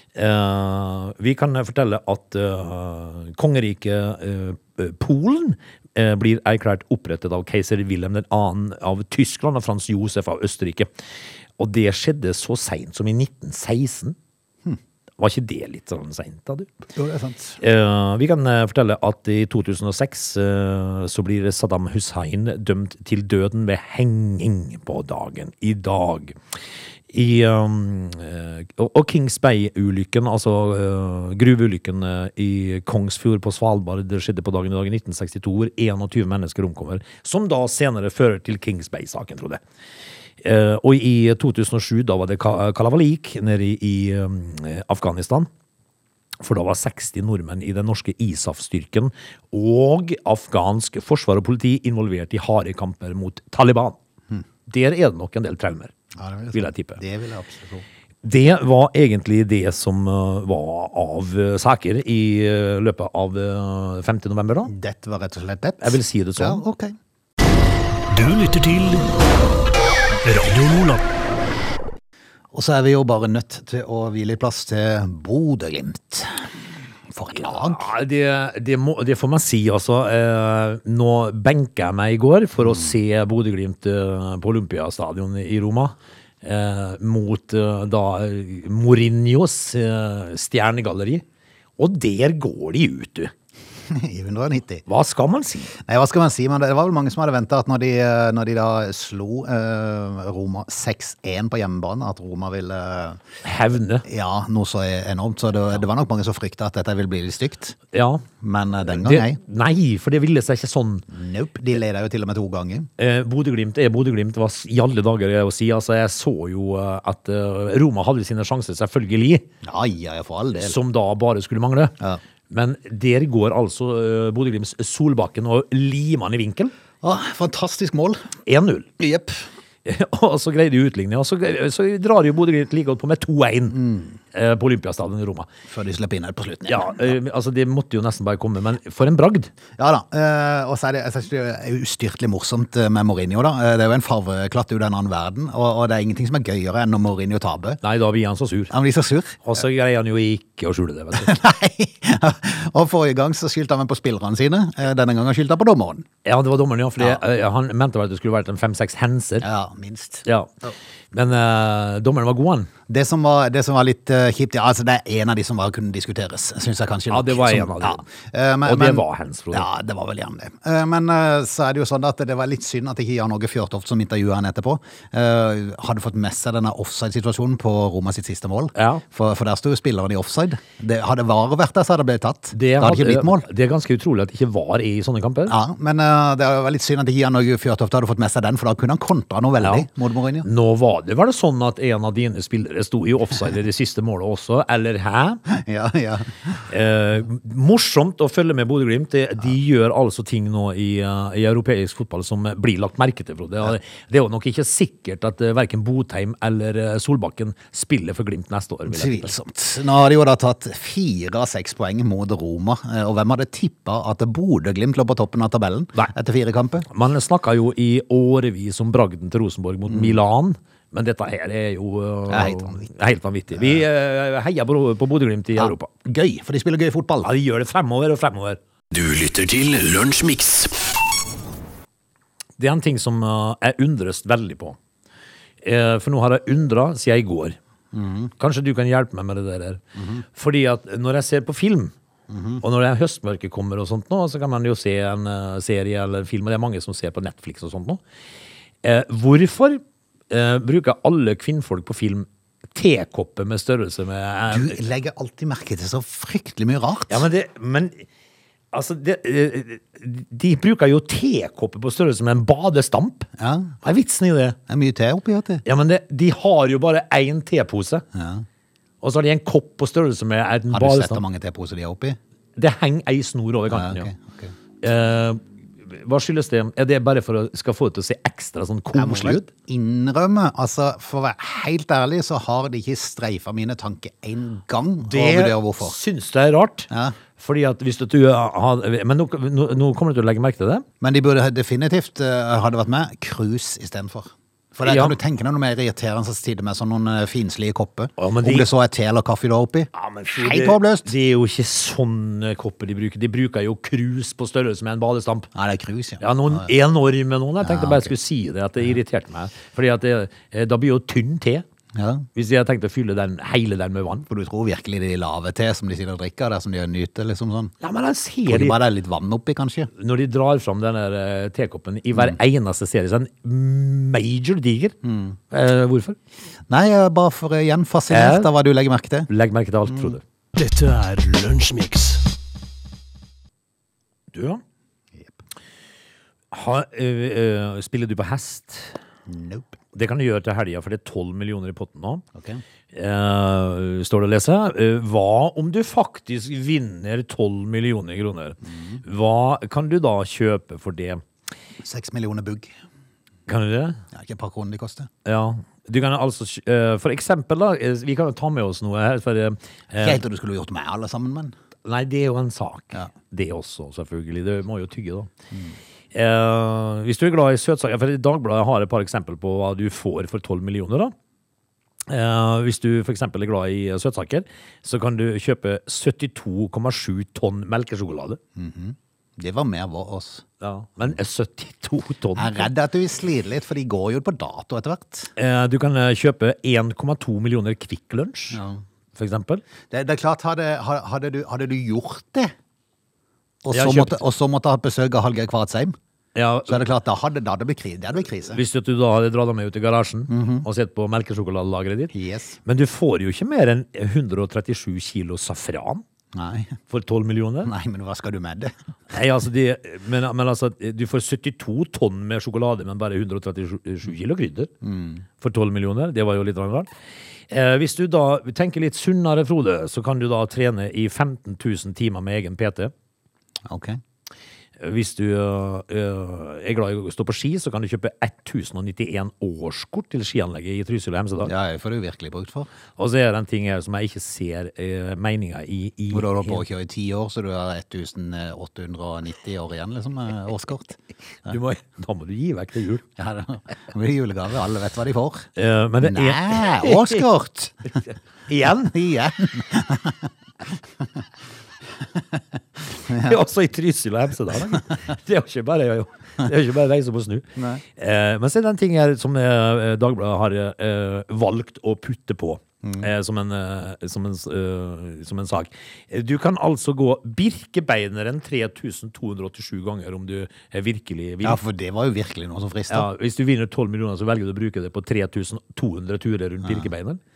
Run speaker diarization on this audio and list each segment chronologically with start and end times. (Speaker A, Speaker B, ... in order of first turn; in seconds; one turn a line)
Speaker A: 0.1-10.9
Speaker A: 11.6-14.2
Speaker A: 15.2-16.7
Speaker B: 16.9-17.6
Speaker A: 17.6-26.4
Speaker A: 27.1-39.6
Speaker A: 40.4-45.5
Speaker A: 46.4-54.0
Speaker A: 54.7-55.9
Speaker B: 56.1-57.8
Speaker A: 56.5-57.0
Speaker A: 58.2-64.7
Speaker B: 64.7-67.0
Speaker A: 65.8-66.6
Speaker C: 68.1-69.1
Speaker C: 70.2-71.0
Speaker B: 72.5-76.5
Speaker B: 77.1-77.8
Speaker A: 77.3-91.2
Speaker B: 82.6-82.9
Speaker A: 91.8-93.3
Speaker B: 93.9-94.8
Speaker A: 94.8-95.7
Speaker B: 95.8-103.2
Speaker A: 103.4-104.0
Speaker B: 104.0-107.8
Speaker A: 107.9-108.2
Speaker B: 108.4-109.4
Speaker A: 108.9-111.0
Speaker B: 111.1-112.9
Speaker A: 113.0-119.4
Speaker B: 119.6-120.8
Speaker A: 120.6-122.0
Speaker A: 122.5-126.7
Speaker B: 127.0-128.3
Speaker A: 128.4-128.9
Speaker B: 129.0-129.4
Speaker A: 129.8-135.5
Speaker B: 133.7-134.1
Speaker B: 135.7-137.0
Speaker A: 136.7-139.5
Speaker B: 139.8-147.8
Speaker A: 147.8-148.7
Speaker B: 148.7-149.4
Speaker A: 149.4-151.3
Speaker B: 151.1-156.1
Speaker A: 156.2-159.4
Speaker B: 159.4-160.7
Speaker A: 160.2-160.5
Speaker A: 161.1-162.7
Speaker B: 162.9-183.4
Speaker A: 167.1-168.0
Speaker A: 168.7-169.7
Speaker A: 178.7-179.0
Speaker A: 182.5-185.5
Speaker B: 185.5-190.5
Speaker A: 189.6-189.9
Speaker A: 190.4-195.4
Speaker B: 195.5-196.5
Speaker A: 196.7-209.3
Speaker B: 208.9-216.8
Speaker A: 216.9-225.9
Speaker B: 219.9-220.1
Speaker B: 222.3-222.8
Speaker B: 223.6-223.8
Speaker B: 225.6-227.3
Speaker A: 227.2-228.6
Speaker C: 228.9-230.8
Speaker A: 232.6-234.8
Speaker A: 235.6-237.6
Speaker B: 237.9-238.3
Speaker A: 238.4-239.8
Speaker B: 239.9-240.2
Speaker A: 240.3-241.9
Speaker B: 242.3-242.6
Speaker A: 242.6-248.0
Speaker A: 248.8-254.8
Speaker B: 254.5-257.2
Speaker A: 257.1-258.1
Speaker A: 258.7-263.3
Speaker B: 263.4-263.7
Speaker A: 263.8-264.6
Speaker B: 264.7-265.6
Speaker A: 265.6-268.0
Speaker B: 268.1-268.4
Speaker A: 269.0-271.2
Speaker B: 270.7-272.2
Speaker A: 272.6-274.1
Speaker B: 273.7-274.5
Speaker A: 274.8-279.5
Speaker B: 278.9-286.0
Speaker A: 285.1-290.8
Speaker B: 286.9-287.2
Speaker B: 291.0-301.1
Speaker A: 294.8-295.1
Speaker A: 298.2-298.7
Speaker A: 299.9-305.5
Speaker B: 305.5-306.7
Speaker A: 306.2-311.6
Speaker B: 307.6-308.1
Speaker B: 311.9-312.3
Speaker A: 312.3-314.2
Speaker B: 314.3-317.7
Speaker A: 317.8-318.8
Speaker B: 318.5-319.9
Speaker A: 319.9-324.9
Speaker B: 325.0-325.4
Speaker A: 325.5-326.2
Speaker B: 326.7-329.3
Speaker A: 328.1-328.5
Speaker A: 329.3-330.2
Speaker B: 329.9-330.1
Speaker C: 330.5-332.2
Speaker A: 334.3-334.6
Speaker A: 336.5-338.9
Speaker B: 339.3-339.8
Speaker A: 339.9-342.2
Speaker B: 342.3-342.6
Speaker A: 342.9-351.2
Speaker B: 348.6-349.0
Speaker B: 351.8-352.7
Speaker A: 353.5-354.0
Speaker B: 354.1-355.1
Speaker A: 355.2-360.2
Speaker B: 360.0-361.5
Speaker A: 361.8-365.3
Speaker A: 366.1-371.1
Speaker A: 372.1-378.4
Speaker B: 378.6-380.4
Speaker A: 380.6-382.7
Speaker B: 382.4-385.3
Speaker A: 385.4-388.6
Speaker B: 388.5-388.8
Speaker A: 389.1-389.6
Speaker B: 389.9-392.5
Speaker B: 393.6-395.9
Speaker A: 393.7-394.2
Speaker A: 396.3-396.8
Speaker B: 396.7-398.6
Speaker A: 398.5-402.1
Speaker B: 400.3-400.6
Speaker B: 402.1-402.6
Speaker A: 402.6-406.0
Speaker B: 406.3-406.8
Speaker A: 406.9-407.7
Speaker B: 407.6-408.7
Speaker A: 409.1-414.7
Speaker B: 414.8-415.2
Speaker A: 415.4-416.9
Speaker A: 417.5-422.9
Speaker B: 423.6-424.0
Speaker A: 424.8-431.5
Speaker B: 431.4-432.7
Speaker A: 433.0-436.6
Speaker B: 436.1-441.5
Speaker A: 441.4-443.0
Speaker B: 443.2-445.5
Speaker A: 445.6-447.2
Speaker B: 446.0-448.0
Speaker A: 448.5-448.9
Speaker B: 448.7-450.3
Speaker B: 453.0-453.3
Speaker A: 453.1-471.6
Speaker B: 457.6-457.8
Speaker B: 462.8-463.1
Speaker B: 471.4-473.1
Speaker A: 472.9-477.2